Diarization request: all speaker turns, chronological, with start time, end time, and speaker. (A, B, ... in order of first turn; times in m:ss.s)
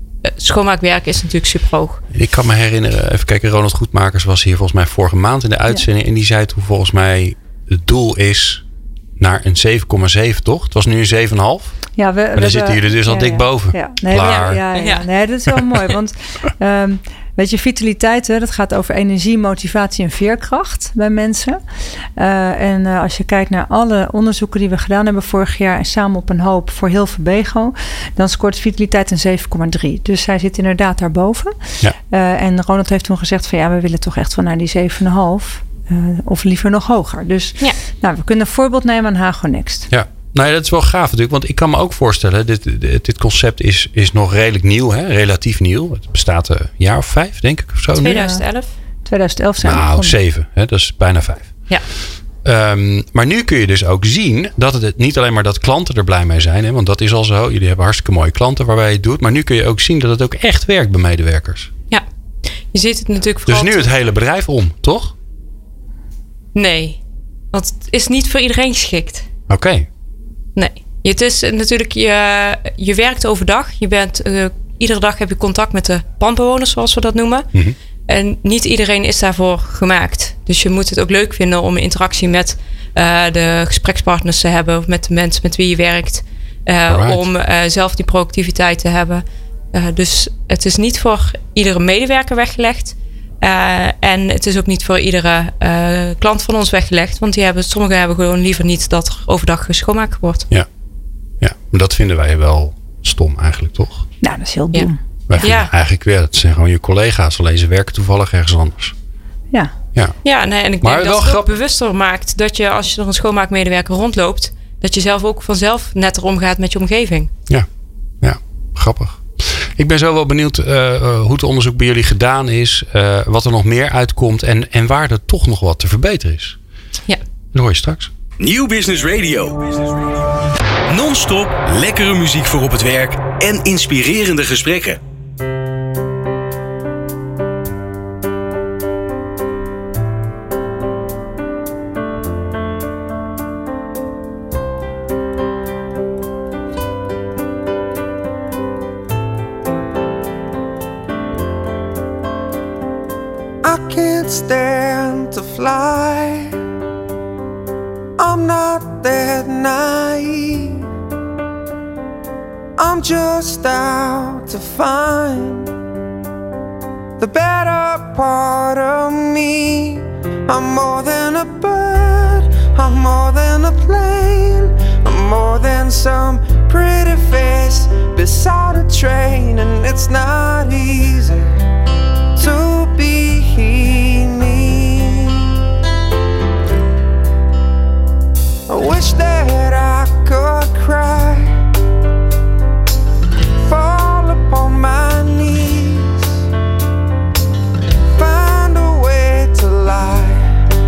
0:00.2-0:02.0 A
0:02.1-0:08.6 B
0:09.2-0:11.8 B
0:12.0-0:21.6 C
0:12.3-0:14.6 B
0:14.2-0:15.0 A
0:22.2-0:39.9 C
0:39.9-0:48.3 B
0:48.0-0:48.7 A
0:48.2-0:48.4 C
0:49.0-0:50.2 C
0:49.6-0:51.6 B
0:52.4-1:01.7 B
1:02.7-1:03.8 A
1:03.5-1:05.2 B
1:06.5-1:07.0 A
1:07.5-1:09.3 A
1:09.5-1:09.9 B
1:10.6-1:17.5 A
1:18.1-1:40.5 A
1:26.9-1:27.2 B
1:41.4-1:44.1 B
1:44.2-1:45.0 C
1:45.3-1:48.9 B
1:45.4-1:45.7 A
1:50.2-1:57.3 A
1:50.8-1:51.5 B
1:58.2-2:06.6 B
2:07.5-2:08.1 B
2:08.4-2:09.9 D
2:10.9-2:15.0 D
2:33.6-2:36.6 E
2:38.2-2:40.8 E
2:42.8-2:45.7 E
2:47.2-3:01.5 E
3:02.3-3:05.6 E
3:08.7-3:11.7 E
3:13.6-3:16.4 E
3:18.1-3:20.6 E